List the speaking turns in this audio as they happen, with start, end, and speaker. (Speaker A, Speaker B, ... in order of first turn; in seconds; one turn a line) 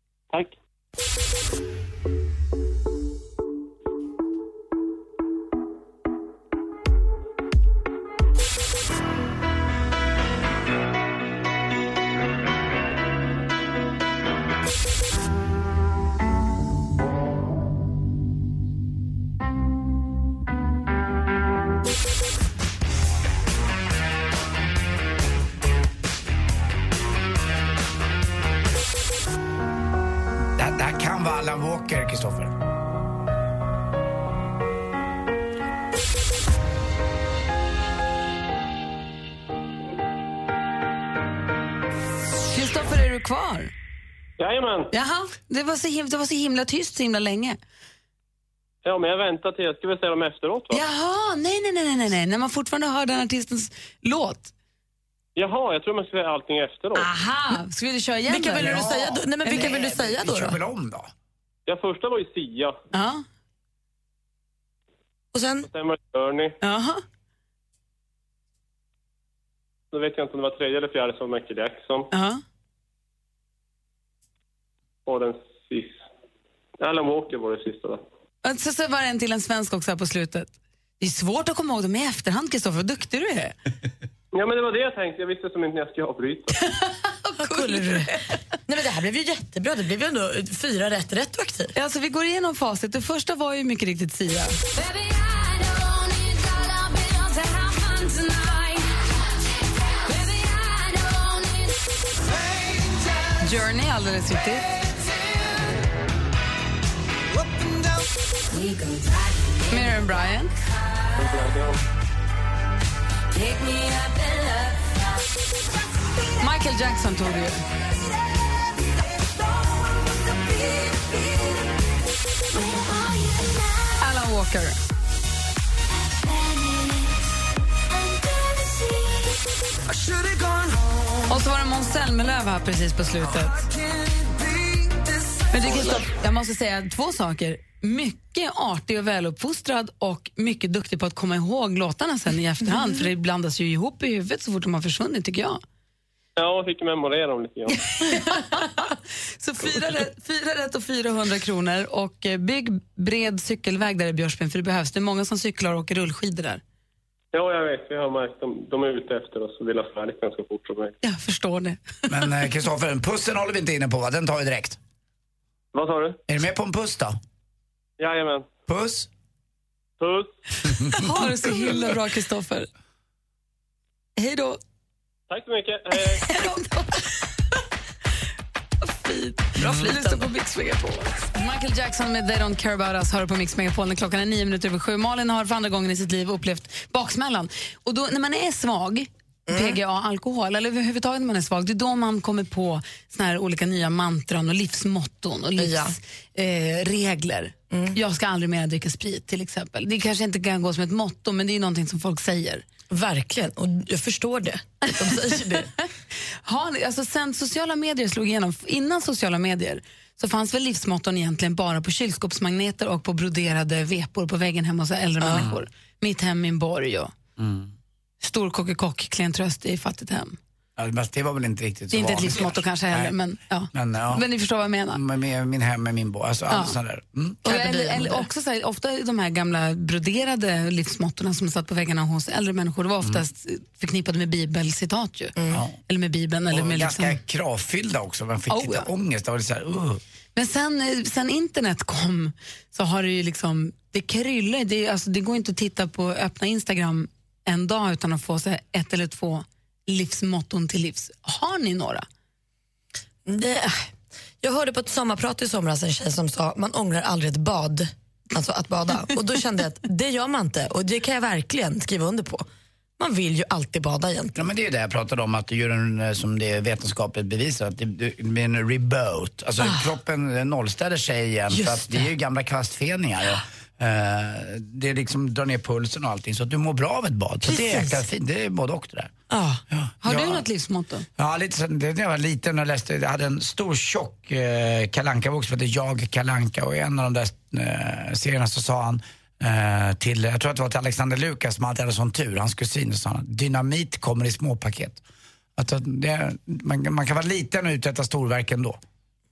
Speaker A: 30.5-32.5
Speaker B: 42.5-43.7
Speaker C: 44.4-44.9
Speaker B: 44.9-47.6
Speaker C: 48.8-50.8
Speaker B: 50.7-54.5
Speaker C: 55.4-57.1
Speaker B: 56.9-58.8
Speaker D: 58.3-60.6
Speaker A: 58.6-61.1
Speaker B: 59.4-59.7
Speaker C: 61.7-62.8
Speaker B: 62.9-63.2
Speaker D: 65.3-65.7
Speaker C: 65.7-66.6
Speaker B: 66.6-67.0
Speaker C: 69.9-72.1
Speaker B: 72.1-72.4
Speaker C: 75.1-76.0
Speaker C: 76.8-78.0
Speaker B: 78.4-83.5
Speaker C: 84.3-86.5
Speaker B: 86.5-88.1
Speaker D: 87.4-91.7
Speaker B: 91.7-94.6
Speaker B: 103.4-104.7
Speaker B: 109.7-110.5
Speaker C: 111.2-111.8
Speaker B: 116.4-117.6
Speaker B: 124.0-124.8
Speaker B: 131.3-133.7
Speaker B: 135.5-145.6
Speaker C: 146.4-147.8
Speaker B: 147.7-156.6
Speaker C: 157.3-160.9
Speaker B: 161.0-161.8
Speaker A: 162.1-164.8
Speaker C: 165.7-166.2
Speaker A: 166.3-167.2
Speaker C: 168.0-168.5
Speaker A: 168.7-169.1
Speaker C: 170.0-170.3
Speaker B: 170.9-172.7
Speaker B: 174.2-174.6
Speaker C: 175.3-176.3
Speaker B: 176.0-177.0
Speaker B: 178.8-202.6
Speaker D: 179.6-180.3
Speaker A: 179.6-179.9
Speaker D: 189.5-189.8
Speaker D: 195.6-195.9
Speaker D: 197.7-197.9
Speaker D: 202.9-205.7
Speaker B: 206.4-217.1
Speaker D: 215.2-215.5
Speaker A: 217.4-217.7
Speaker B: 218.2-220.4
Speaker A: 220.8-223.1
Speaker B: 221.9-225.0
Speaker A: 223.7-224.2
Speaker A: 224.9-227.4
Speaker B: 226.5-226.7
Speaker D: 227.4-228.2
Speaker B: 227.4-235.3
Speaker D: 235.3-235.6
Speaker A: 235.5-235.8
Speaker B: 235.9-237.2
Speaker A: 236.5-240.0
Speaker B: 238.5-238.9
Speaker B: 240.3-252.1
Speaker D: 253.2-253.9
Speaker D: 254.4-262.4
Speaker D: 263.0-264.4
Speaker A: 264.4-279.1
Speaker D: 269.6-269.9
Speaker D: 271.5-272.1
Speaker D: 277.4-278.0
Speaker D: 279.3-279.6
Speaker A: 279.7-280.4
Speaker B: 280.0-281.1
Speaker A: 281.2-295.0
Speaker A: 295.6-298.8